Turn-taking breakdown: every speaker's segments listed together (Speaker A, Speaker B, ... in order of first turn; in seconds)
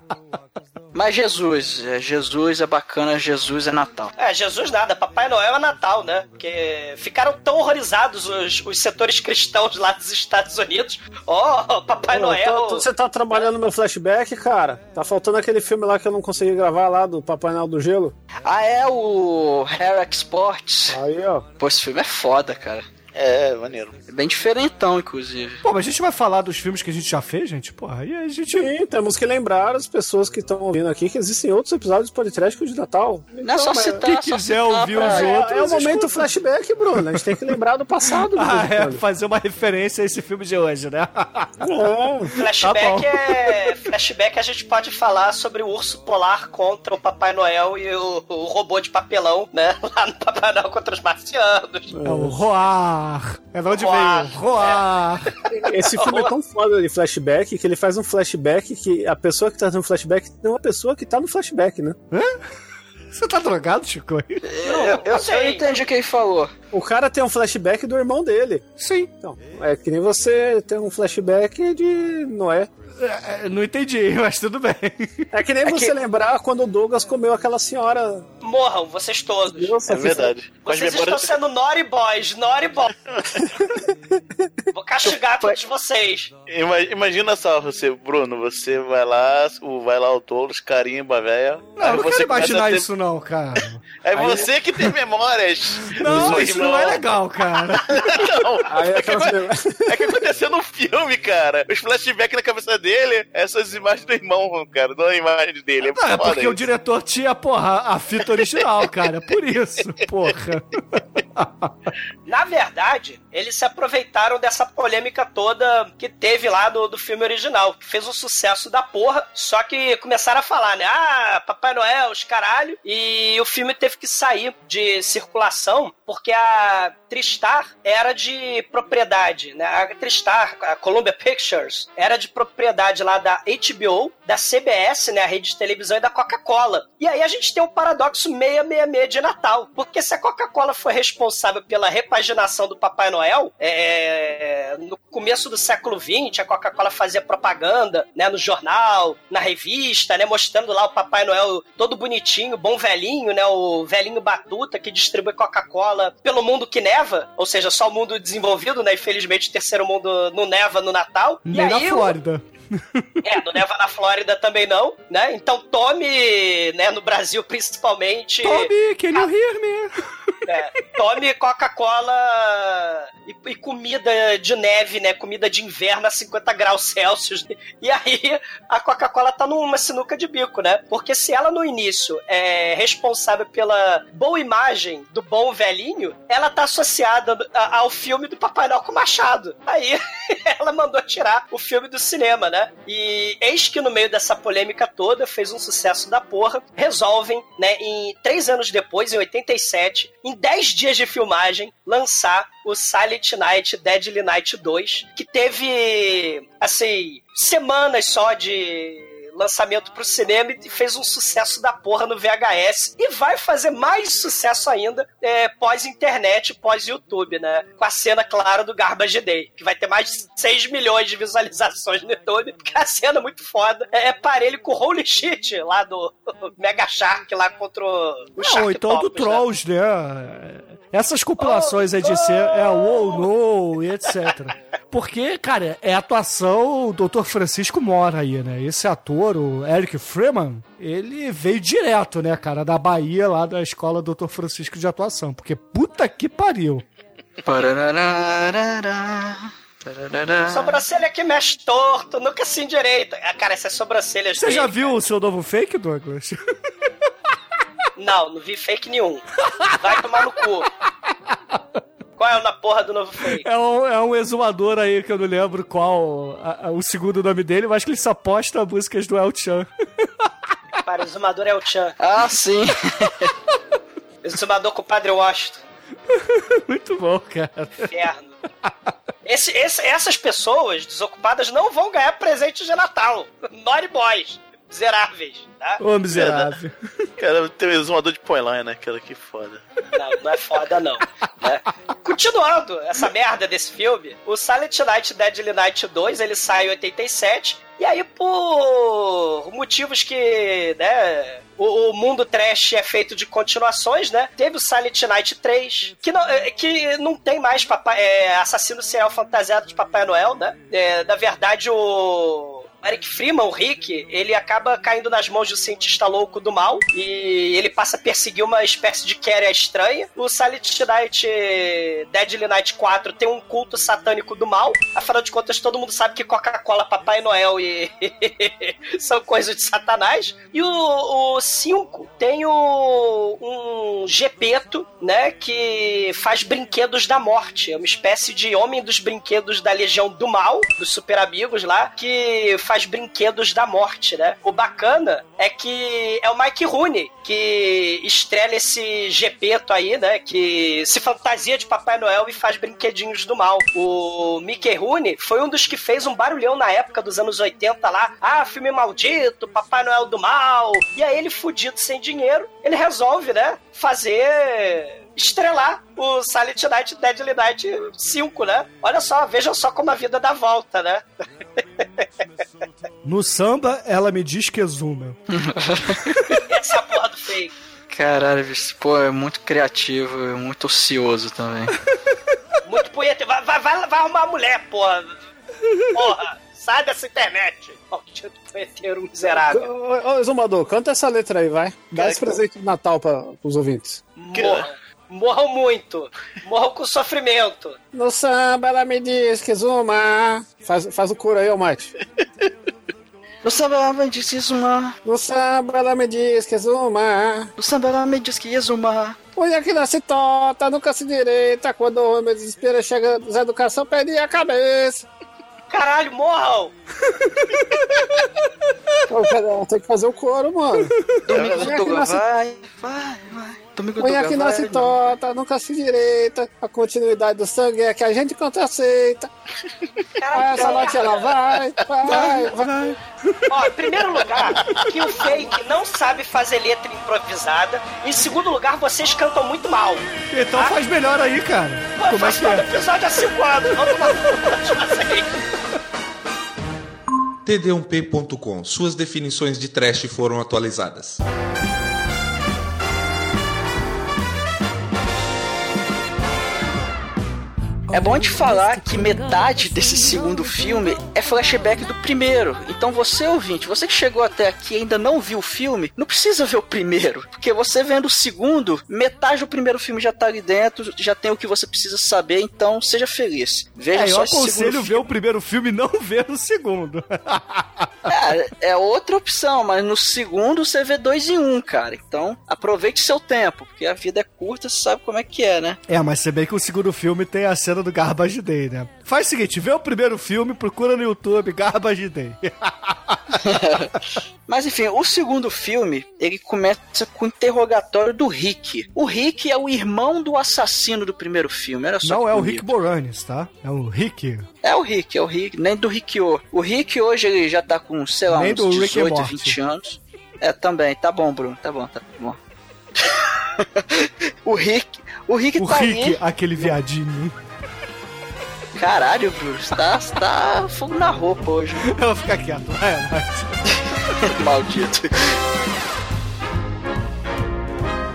Speaker A: 0.9-4.1, 18.4-21.0, 21.6-22.9, 24.1-25.6, 33.4-35.3, 64.5-66.5, 247.4-250.8, 272.0-273.3, 375.3-376.4, 377.9-381.8, 403.4-405.0, 407.6-409.2, 421.3-424.9, 457.9-475.1, 478.1-485.8, 493.4-493.9, 494.5-502.7, 504.6-512.4, 513.0-516.7, 518.8-522.0, 523.7-525.4
Speaker B: 4.2-12.9, 42.4-51.9, 53.7-54.8, 55.8-56.3, 64.6-65.8, 75.7-75.9, 78.4-79.8, 80.6-82.9, 84.7-86.3, 112.3-162.2, 163.2-169.3, 170.5-229.5, 231.4-233.3, 250.5-255.0, 258.0-260.7, 262.2-263.5, 270.8-272.0, 274.2-275.6, 277.8-278.4, 279.2-285.8, 289.9-371.1, 376.5-377.5, 382.7-385.1, 385.9-389.7, 394.2-397.8, 415.7-416.7, 430.2-431.4, 433.5-440.8, 442.0-445.4
Speaker C: 12.1-18.1, 20.9-21.5, 28.5-34.0, 34.9-39.0, 41.6-42.3, 51.9-52.4, 55.5-62.0, 66.7-72.7, 75.3-78.3, 79.5-80.3, 83.8-84.2, 94.2-94.4, 96.0-96.5, 98.7-100.2, 389.4-394.0, 397.9-401.9, 405.0-407.5, 409.4-415.1, 419.1-422.2, 424.0-429.3, 430.3-432.9
Speaker D: 23.1-24.0, 79.9-81.3, 83.1-83.4, 86.5-92.9, 94.0-106.7, 286.1-286.5, 287.2-289.6, 391.9-392.3, 394.4-394.7
Speaker E: 25.6-28.7, 33.8-36.3, 38.3-41.5, 42.5-43.8, 52.0-55.4, 63.1-64.5, 68.8-69.1, 73.0-75.3, 91.8-93.8, 95.9-98.4, 105.9-111.7, 161.5-163.4, 168.4-169.9, 228.4-246.8, 254.4-256.4, 259.4-260.2, 261.3-261.6, 263.3-270.3, 276.1-277.9, 285.8-286.8, 373.0-375.2, 375.9-376.4, 417.1-418.3, 420.9-421.2, 432.1-433.7, 440.3-442.7, 473.9-478.1, 485.9-493.6, 502.0-504.5, 508.3-509.6, 515.6-517.4, 521.8-523.6
Speaker F: 447.5-451.2